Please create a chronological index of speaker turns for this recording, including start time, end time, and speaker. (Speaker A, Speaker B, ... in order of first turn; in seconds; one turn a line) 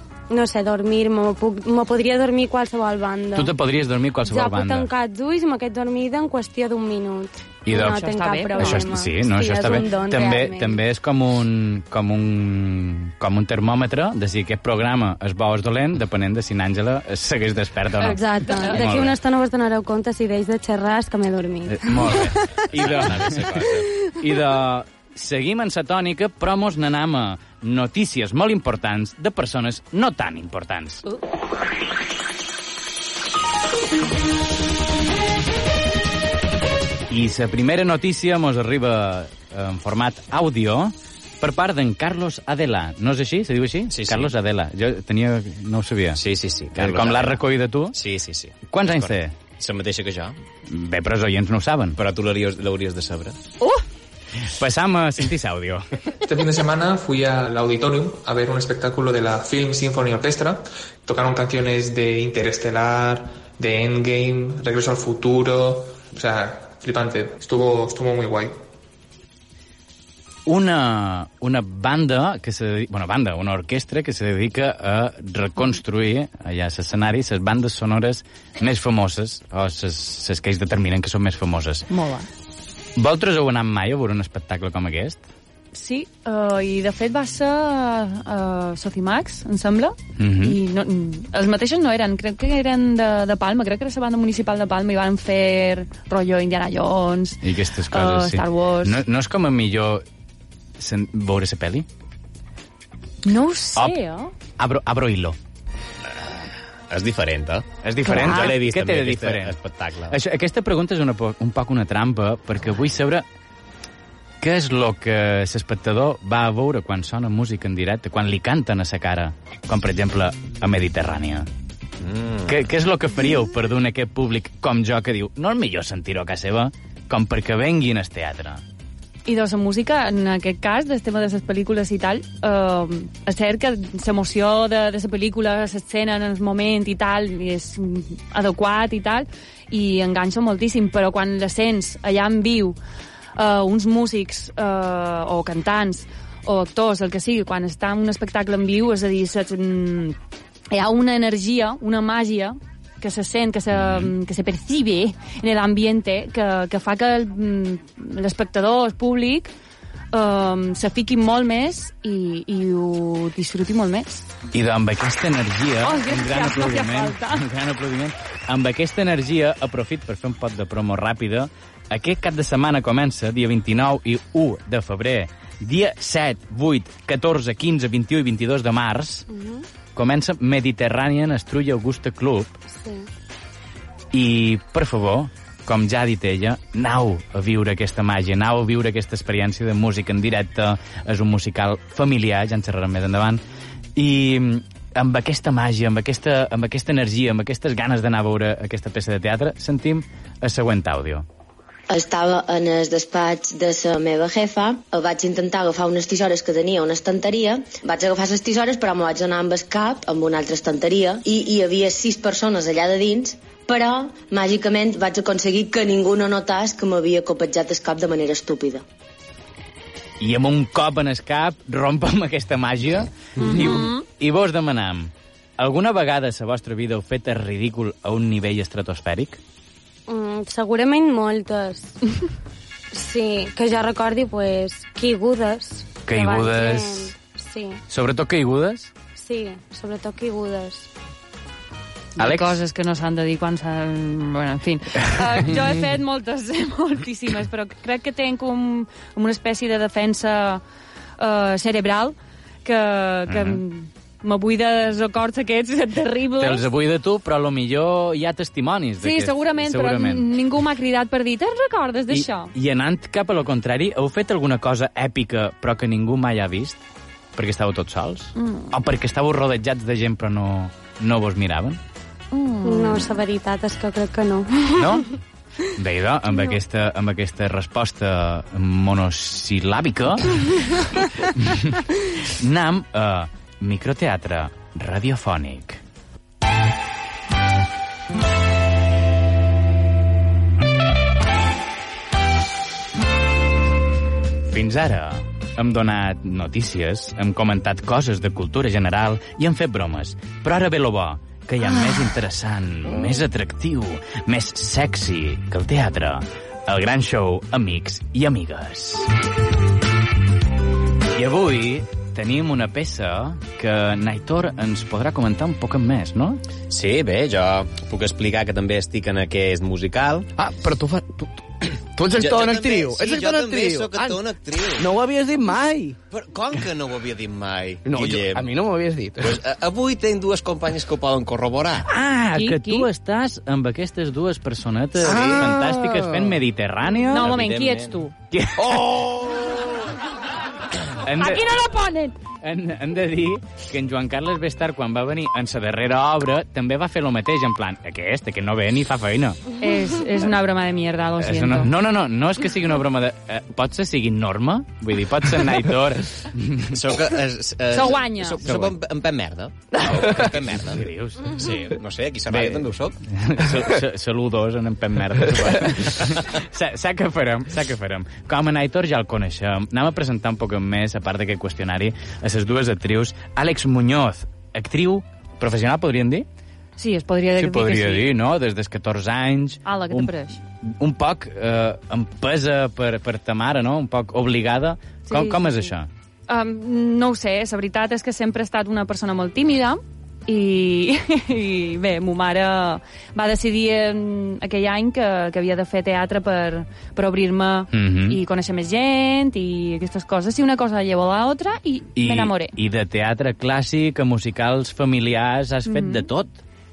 Speaker A: 0.3-3.5
Speaker B: 3.3-4.9
Speaker A: 4.3-10.8
Speaker B: 7.7-19.1
Speaker C: 7.7-8.9
Speaker A: 18.0-22.2
Speaker C: 18.4-18.8
Speaker B: 21.6-31.0
Speaker D: 22.7-23.9
Speaker B: 37.1-46.2
Speaker D: 43.9-44.3
Speaker D: 46.1-50.4
Speaker B: 46.7-48.0
Speaker B: 48.7-49.4
Speaker B: 50.6-52.0
Speaker D: 52.0-53.4
Speaker B: 54.5-55.9
Speaker E: 56.2-68.6
Speaker B: 70.5-81.9
Speaker C: 81.9-82.3
Speaker B: 83.0-85.2
Speaker C: 85.7-99.0
Speaker B: 90.2-90.6
Speaker B: 97.4-100.0
Speaker B: 100.8-101.8
Speaker C: 103.2-104.3
Speaker B: 104.6-105.4
Speaker D: 106.9-110.2
Speaker B: 107.8-109.6
Speaker C: 108.0-108.5
Speaker B: 110.1-113.2
Speaker B: 114.4-121.5
Speaker D: 122.0-122.6
Speaker B: 122.5-128.6
Speaker C: 129.2-142.8
Speaker C: 143.3-150.2
Speaker C: 150.7-159.5
Speaker B: 153.7-154.1
Speaker C: 160.1-164.2
Speaker B: 164.5-179.2
Speaker C: 165.8-167.4
Speaker A: 179.3-179.6
Speaker B: 179.9-182.6
Speaker A: 182.7-183.1
Speaker B: 184.1-193.4
Speaker B: 193.9-201.2
Speaker F: 201.9-218.8
Speaker B: 220.2-229.4
Speaker C: 223.4-224.0
Speaker A: 230.1-232.0
Speaker A: 232.9-237.8
Speaker B: 236.0-237.1
Speaker B: 237.9-238.9
Speaker A: 239.2-240.9
Speaker C: 242.2-250.6
Speaker B: 242.2-242.6
Speaker C: 251.2-256.7
Speaker B: 253.3-253.6
Speaker B: 256.4-260.3
Speaker C: 259.0-262.5
Speaker B: 262.1-266.8
Speaker B: 267.4-271.8
Speaker C: 268.4-268.7
Speaker C: 272.3-273.2
Speaker A: 272.6-275.0
Speaker B: 274.8-275.1
Speaker B: 275.7-285.8
Speaker B: 294.4-309.1
Speaker B: 311.1-316.4
Speaker D: 316.7-320.3
Speaker G: 320.4-324.2
Speaker D: 322.1-324.9
Speaker G: 324.8-325.9
Speaker D: 326.1-328.5
Speaker G: 327.9-329.4
Speaker D: 329.2-331.9
Speaker B: 331.9-337.3
Speaker C: 332.3-332.9
Speaker D: 335.0-335.4
Speaker G: 335.1-336.3
Speaker C: 337.1-338.1
Speaker D: 337.1-338.0
Speaker B: 338.3-339.1
Speaker G: 338.6-339.4
Speaker B: 341.0-341.4
Speaker C: 341.1-342.2
Speaker B: 342.4-349.4
Speaker C: 349.6-351.7
Speaker B: 351.2-356.8
Speaker D: 356.7-363.0
Speaker C: 357.7-358.4
Speaker B: 358.4-358.7
Speaker B: 360.1-361.8
Speaker B: 362.3-376.2
Speaker C: 376.8-378.1
Speaker B: 377.4-385.9
Speaker C: 379.6-380.4
Speaker C: 385.1-385.7
Speaker C: 386.3-402.6
Speaker B: 397.7-398.2
Speaker B: 401.9-406.4
Speaker C: 405.7-406.1